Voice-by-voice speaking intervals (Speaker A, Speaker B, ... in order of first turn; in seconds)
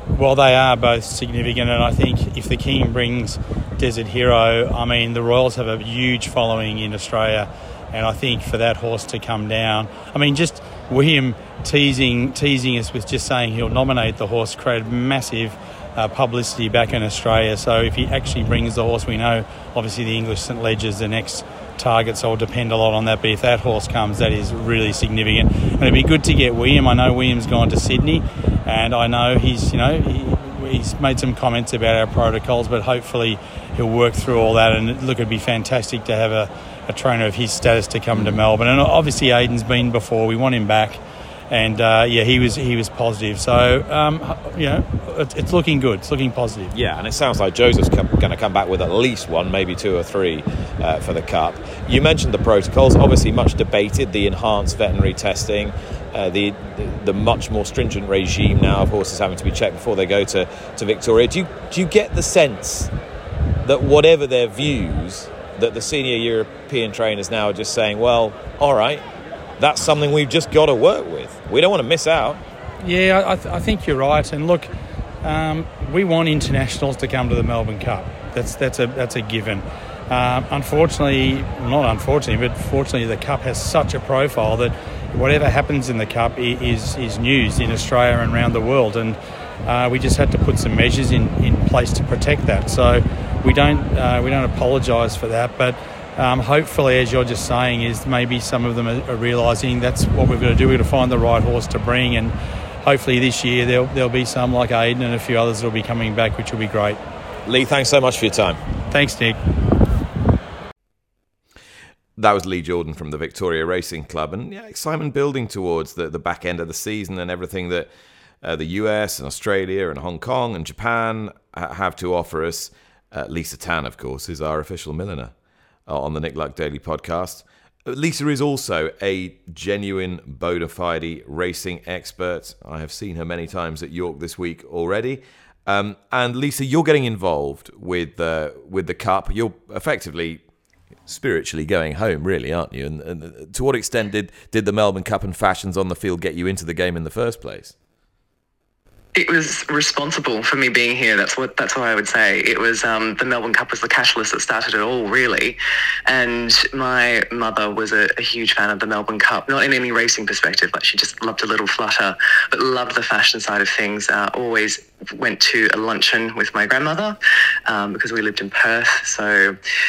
Speaker A: 0.1-46.7, 72.8-74.7, 75.2-107.0, 108.9-109.4
Speaker B: 46.7-62.9, 63.6-69.0, 69.6-72.4, 107.5-108.6, 112.2-117.9, 118.4-125.3, 125.9-140.4, 141.1-147.8
Speaker C: 149.2-169.6